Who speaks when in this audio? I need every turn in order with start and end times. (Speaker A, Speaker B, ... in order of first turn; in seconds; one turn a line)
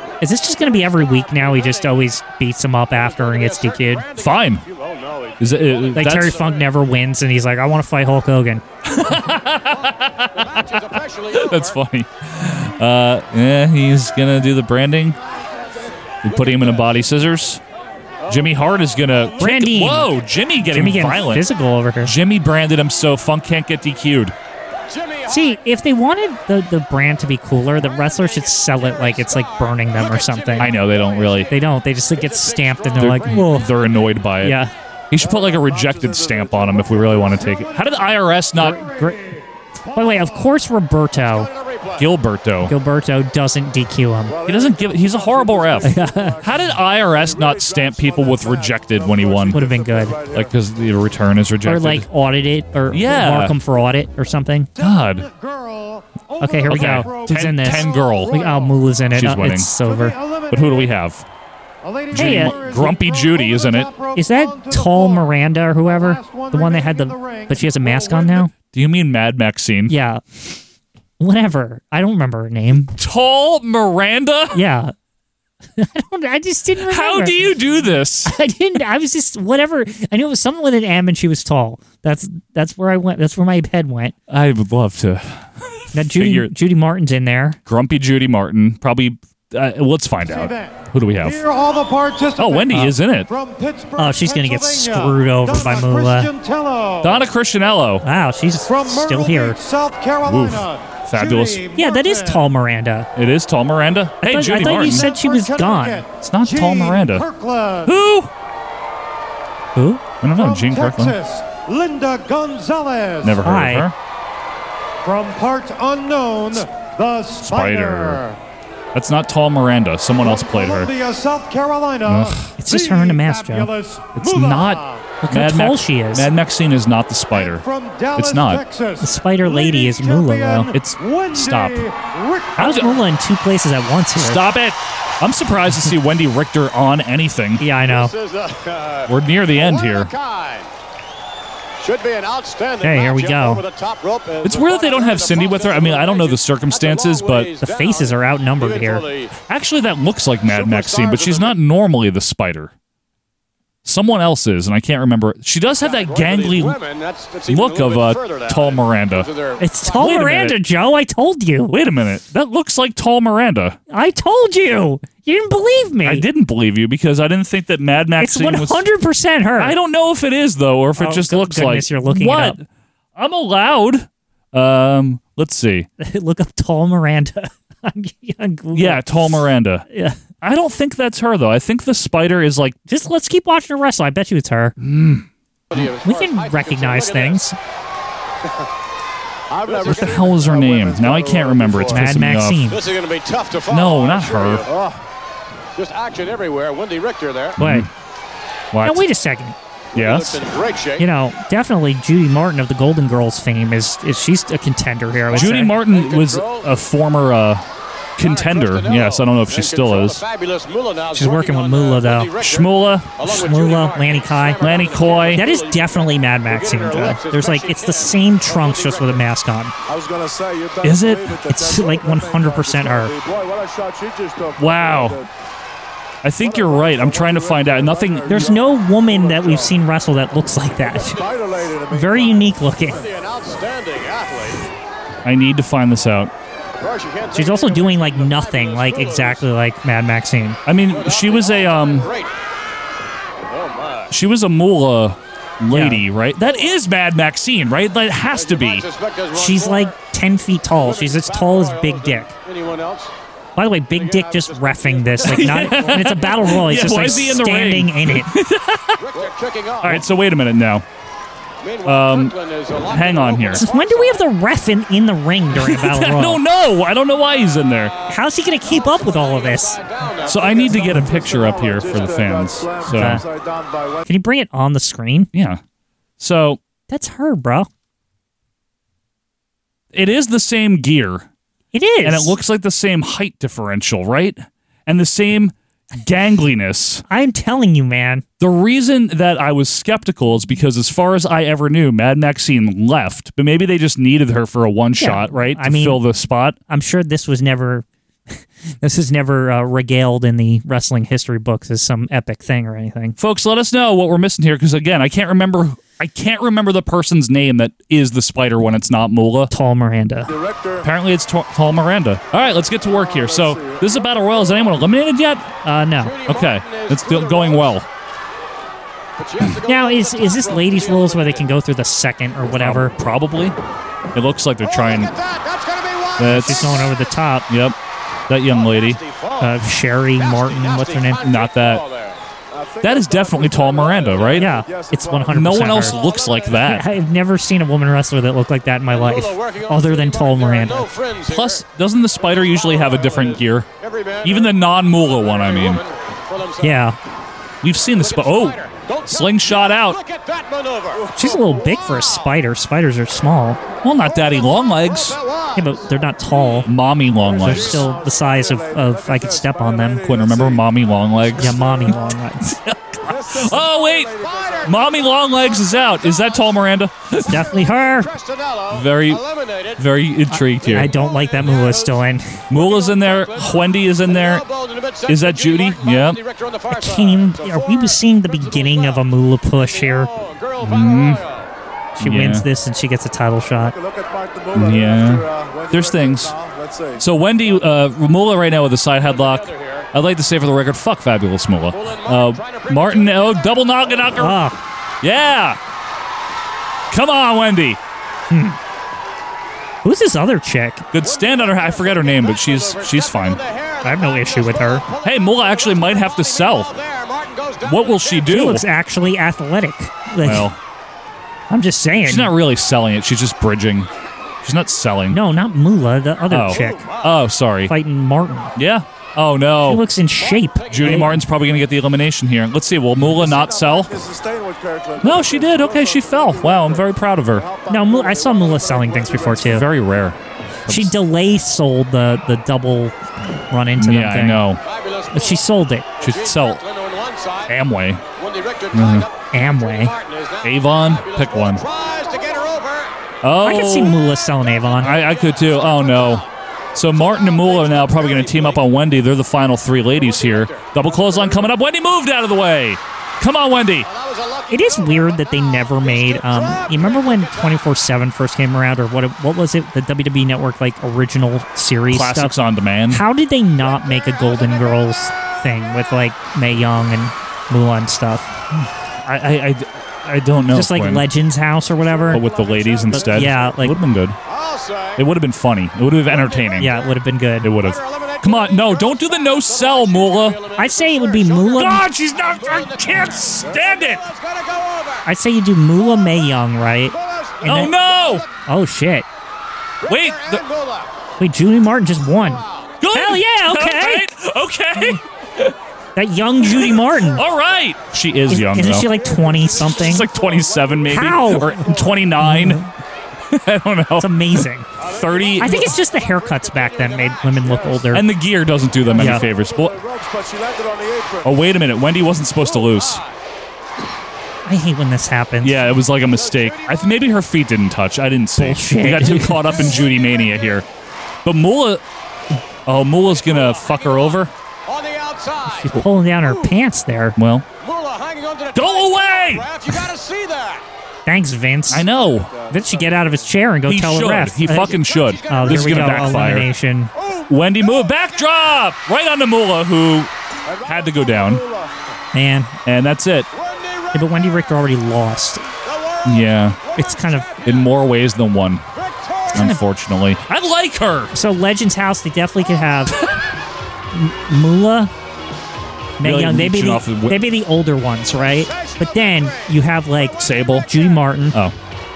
Speaker A: 0.2-4.0
Speaker B: 0.6-2.0
Speaker B: 2.9-6.7
Speaker C: 4.2-4.6
Speaker C: 5.4-6.4
Speaker A: 6.0-8.6
Speaker C: 8.8-10.8
Speaker B: 9.7-11.8
Speaker C: 11.3-15.2
Speaker C: 16.2-17.6
Speaker B: 16.3-17.0
Speaker B: 18.2-18.6
Speaker C: 18.3-21.4
Speaker A: 19.4-20.1
Speaker A: 20.6-22.1
Speaker C: 22.0-24.4
Speaker B: 24.9-25.6
Speaker A: 25.3-30.7
Speaker B: 27.8-33.7
Speaker C: 30.6-31.5
Speaker A: 31.5-33.7
Speaker C: 33.0-34.6
Speaker A: 34.4-34.7
Speaker C: 35.1-38.9
Speaker D: 35.1-37.9
Speaker A: 38.5-39.2
Speaker E: 38.7-40.5
Speaker A: 39.9-41.5
Speaker B: 41.4-42.1
Speaker C: 42.0-42.7
Speaker A: 42.6-44.4
Speaker D: 44.3-50.5
Speaker C: 44.5-49.6
Speaker A: 45.8-46.4
Speaker A: 49.5-50.2
Speaker C: 50.3-52.1
Speaker A: 51.6-54.7
Speaker C: 52.9-53.6
Speaker E: 54.8-58.9
Speaker C: 54.8-55.3
Speaker A: 56.4-60.2
Speaker C: 56.7-58.4
Speaker C: 59.1-59.7
Speaker E: 59.7-60.9
Speaker C: 60.5-61.2
Speaker E: 61.8-68.5
Speaker C: 62.1-63.9
Speaker A: 62.1-62.6
Speaker A: 64.1-68.5
Speaker C: 68.7-69.9
Speaker A: 69.9-70.2
Speaker A: 71.2-72.9
Speaker C: 72.8-74.6
Speaker A: 74.5-74.9
Speaker A: 75.8-77.6
Speaker C: 76.8-78.3
Speaker A: 78.3-84.1
Speaker C: 84.3-86.5
Speaker A: 85.9-87.6
Speaker C: 87.7-91.4
Speaker E: 90.2-97.2
Speaker C: 92.4-93.3
Speaker A: 94.0-96.3
Speaker C: 97.0-98.0
Speaker A: 98.0-99.6
Speaker E: 98.7-102.5
Speaker C: 100.2-101.6
Speaker A: 101.7-103.1
Speaker C: 103.2-105.1
Speaker A: 104.2-106.0
Speaker E: 104.6-108.0
Speaker C: 106.2-107.3
Speaker C: 107.8-108.3
Speaker A: 109.8-110.0
Speaker C: 110.2-111.2
Speaker E: 110.3-113.4
Speaker C: 113.2-114.0
Speaker A: 113.4-113.9
Speaker E: 115.0-118.4
Speaker C: 117.4-118.2
Speaker C: 118.9-120.9
Speaker E: 120.2-125.1
Speaker C: 122.0-122.5
Speaker A: 122.6-123.7
Speaker C: 124.2-128.6
Speaker A: 125.2-126.3
Speaker E: 127.3-133.0
Speaker A: 129.0-130.7
Speaker C: 130.7-131.9
Speaker A: 132.6-134.4
Speaker C: 132.6-132.8
Speaker C: 134.2-137.6
Speaker A: 137.6-138.1
Speaker B: 137.9-140.7
Speaker C: 139.1-140.1
Speaker B: 141.8-149.3
Speaker A: 142.8-143.6
Speaker C: 144.4-147.5
Speaker A: 147.6-149.1
Speaker C: 149.4-152.7
Speaker B: 150.5-151.6
Speaker C: 153.8-156.8
Speaker B: 155.8-160.1
Speaker C: 157.5-159.3
Speaker A: 159.6-161.7
Speaker C: 159.9-160.6
Speaker C: 161.7-163.8
Speaker A: 163.9-166.2
Speaker C: 166.0-168.8
Speaker A: 168.2-169.8
Speaker C: 169.6-172.6
Speaker A: 171.0-172.6
Speaker C: 173.2-175.9
Speaker A: 176.0-180.2
Speaker C: 178.7-179.9
Speaker C: 180.4-182.8
Speaker A: 182.9-184.8
Speaker C: 184.8-185.3
Speaker B: 185.7-187.4
Speaker A: 185.7-187.6
Speaker D: 189.5-192.1
Speaker B: 189.7-190.2
Speaker C: 189.8-192.7
Speaker A: 191.9-192.8
Speaker B: 192.7-194.7
Speaker C: 193.7-194.6
Speaker D: 194.6-195.0
Speaker B: 195.7-197.6
Speaker C: 197.6-197.9
Speaker A: 197.6-197.9
Speaker C: 198.7-199.0
Speaker A: 198.8-199.6
Speaker C: 199.9-200.4
Speaker B: 199.9-201.1
Speaker A: 201.0-205.8
Speaker C: 205.3-207.6
Speaker B: 205.4-206.7
Speaker C: 208.2-210.2
Speaker B: 208.2-219.2
Speaker A: 211.1-212.3
Speaker C: 212.4-213.1
Speaker A: 213.2-219.7
Speaker C: 214.6-215.4
Speaker D: 219.9-225.3
Speaker C: 220.8-221.4
Speaker A: 221.5-223.1
Speaker C: 224.6-225.2
Speaker C: 226.2-228.4
Speaker D: 226.4-229.8
Speaker A: 228.3-231.2
Speaker D: 230.9-232.8
Speaker A: 231.9-233.1
Speaker B: 232.9-234.6
Speaker C: 235.2-236.3
Speaker B: 236.8-239.4
Speaker A: 237.3-240.6
Speaker C: 240.7-242.1
Speaker B: 240.9-242.3
Speaker B: 243.5-244.1
Speaker C: 244.1-248.9
Speaker A: 245.7-246.0
Speaker B: 246.4-246.7
Speaker B: 248.3-250.0
Speaker A: 249.3-252.3
Speaker B: 250.8-253.1
Speaker A: 253.6-258.3
Speaker B: 253.9-257.4
Speaker C: 255.2-259.1
Speaker B: 259.0-260.1
Speaker C: 259.8-260.9
Speaker B: 261.6-264.2
Speaker C: 261.9-263.6
Speaker A: 263.5-266.4
Speaker C: 265.6-267.9
Speaker B: 267.8-270.8
Speaker A: 268.1-269.8
Speaker C: 270.2-273.2
Speaker D: 270.3-274.1
Speaker A: 272.9-273.2
Speaker A: 274.1-275.3
Speaker C: 275.3-275.6
Speaker C: 276.2-276.6
Speaker A: 276.9-277.7
Speaker C: 279.9-281.3
Speaker A: 281.7-282.4
Speaker C: 282.0-287.0
Speaker A: 287.1-288.2
Speaker C: 288.4-296.6
Speaker A: 295.0-296.0
Speaker A: 296.7-297.9
Speaker A: 298.8-303.2
Speaker C: 303.2-309.5
Speaker A: 309.5-310.3
Speaker D: 310.3-310.9
Speaker C: 310.8-315.5
Speaker D: 312.6-314.8
Speaker A: 315.6-316.2
Speaker B: 316.0-317.8
Speaker C: 316.3-317.9
Speaker B: 319.2-321.5
Speaker A: 319.7-322.9
Speaker C: 322.5-323.6
Speaker C: 324.1-325.1
Speaker B: 324.6-327.1
Speaker C: 326.2-326.9
Speaker A: 326.2-327.4
Speaker C: 327.5-327.8
Speaker C: 328.3-329.0
Speaker B: 328.5-329.6
Speaker A: 329.4-331.3
Speaker B: 330.2-332.2
Speaker C: 331.2-331.8
Speaker D: 332.5-335.9
Speaker C: 332.8-334.5
Speaker A: 334.4-336.0
Speaker C: 335.3-336.9
Speaker B: 335.8-336.7
Speaker A: 336.6-340.9
Speaker B: 338.9-341.6
Speaker C: 341.3-343.7
Speaker B: 342.2-346.8
Speaker C: 344.2-345.8
Speaker A: 346.6-347.0
Speaker C: 347.6-350.0
Speaker B: 348.0-351.1
Speaker D: 351.0-351.7
Speaker A: 351.1-353.6
Speaker C: 353.8-355.2
Speaker B: 354.1-355.8
Speaker A: 355.6-356.7
Speaker C: 356.7-357.9
Speaker D: 357.2-360.6
Speaker A: 357.4-360.1
Speaker C: 360.1-361.7
Speaker D: 361.4-361.9
Speaker A: 361.4-362.6
Speaker C: 362.5-364.1
Speaker D: 363.0-364.8
Speaker B: 364.1-366.6
Speaker C: 364.6-367.5
Speaker B: 367.2-369.9
Speaker A: 367.3-368.1
Speaker C: 368.7-369.2
Speaker C: 369.8-370.9
Speaker A: 370.3-372.4
Speaker B: 370.6-381.5
Speaker C: 372.5-374.4
Speaker C: 375.1-376.2
Speaker A: 376.7-380.1
Speaker C: 380.6-381.2
Speaker A: 381.9-383.8
Speaker C: 382.0-382.5
Speaker D: 383.6-387.1
Speaker C: 384.5-386.4
Speaker C: 387.0-394.4
Speaker B: 389.0-389.9
Speaker B: 391.7-394.1
Speaker A: 394.2-394.6
Speaker C: 395.0-395.6
Speaker C: 396.9-397.8
Speaker A: 398.3-398.6
Speaker A: 399.8-400.9
Speaker C: 400.9-403.4
Speaker B: 401.0-408.5
Speaker A: 403.8-404.9
Speaker C: 405.0-406.7
Speaker C: 407.6-408.6
Speaker A: 408.3-410.5
Speaker C: 410.2-410.6
Speaker A: 411.5-412.4
Speaker C: 412.0-413.9
Speaker C: 414.4-415.2
Speaker A: 415.1-416.9
Speaker C: 416.3-417.7
Speaker B: 416.5-417.1
Speaker A: 417.7-418.5
Speaker C: 418.6-419.9
Speaker A: 419.7-421.1
Speaker B: 420.2-421.1
Speaker C: 420.7-423.9
Speaker D: 423.1-429.6
Speaker C: 425.0-427.5
Speaker A: 427.7-429.6
Speaker C: 429.4-430.9
Speaker A: 430.7-432.9
Speaker A: 433.5-434.4
Speaker C: 433.8-434.6
Speaker B: 434.6-435.5
Speaker A: 435.1-435.9
Speaker B: 436.0-437.6
Speaker C: 436.0-436.6
Speaker C: 437.5-438.0
Speaker B: 438.2-442.9
Speaker C: 438.7-439.1
Speaker A: 439.3-439.9
Speaker C: 440.4-441.6
Speaker C: 443.2-444.0
Speaker A: 443.4-444.9
Speaker B: 444.8-446.3
Speaker C: 444.8-453.9
Speaker B: 446.9-448.6
Speaker B: 449.9-451.4
Speaker B: 453.9-457.7
Speaker A: 454.5-462.4
Speaker C: 461.9-463.0
Speaker A: 462.9-468.3
Speaker B: 463.6-464.9
Speaker C: 469.0-471.1
Speaker A: 470.5-472.3
Speaker D: 471.6-473.6
Speaker C: 472.1-474.2
Speaker A: 472.9-473.8
Speaker B: 474.3-475.0
Speaker C: 474.9-476.7
Speaker B: 476.1-476.9
Speaker A: 476.6-477.5
Speaker C: 477.4-480.4
Speaker B: 477.6-485.1
Speaker A: 480.6-481.8
Speaker C: 481.5-484.0
Speaker A: 485.1-487.7
Speaker B: 486.9-488.3
Speaker C: 487.4-488.2
Speaker A: 488.4-489.1
Speaker B: 489.8-490.9
Speaker C: 489.9-490.4
Speaker A: 491.2-494.1
Speaker B: 492.2-492.7
Speaker C: 492.8-495.5
Speaker A: 495.9-497.2
Speaker C: 496.5-498.9
Speaker A: 498.3-500.1
Speaker D: 498.8-502.1
Speaker C: 499.6-502.6
Speaker A: 500.9-502.7
Speaker C: 503.3-505.7
Speaker A: 504.0-504.7
Speaker B: 504.8-507.6
Speaker A: 505.4-508.1
Speaker D: 507.4-507.9
Speaker C: 507.9-509.8
Speaker D: 508.7-511.4
Speaker A: 508.9-509.2
Speaker C: 511.2-513.0
Speaker B: 512.4-513.1
Speaker A: 514.5-515.7
Speaker C: 515.4-520.7
Speaker B: 516.1-517.0
Speaker A: 518.4-519.7
Speaker B: 519.4-520.5
Speaker C: 521.2-521.8
Speaker C: 522.7-524.3
Speaker B: 523.1-525.7
Speaker A: 525.5-527.2
Speaker C: 527.2-527.5
Speaker B: 527.6-530.6
Speaker C: 528.5-529.5
Speaker A: 531.0-531.9
Speaker C: 531.7-532.3
Speaker D: 532.0-533.4
Speaker A: 532.5-536.9
Speaker C: 533.7-536.5
Speaker B: 534.6-536.4
Speaker C: 537.3-540.1
Speaker D: 540.5-541.7
Speaker C: 540.6-541.4
Speaker A: 542.1-542.5
Speaker C: 542.6-543.3
Speaker B: 543.3-544.0
Speaker A: 543.9-545.5
Speaker B: 545.6-547.6
Speaker C: 546.0-546.6
Speaker A: 546.8-547.3
Speaker C: 547.5-548.6
Speaker B: 548.7-549.4
Speaker C: 549.3-551.1
Speaker A: 549.3-549.6
Speaker A: 551.1-553.0
Speaker A: 553.9-554.9
Speaker A: 556.0-561.4
Speaker C: 556.0-557.3
Speaker B: 558.4-559.5
Speaker B: 560.0-561.0
Speaker C: 560.2-560.7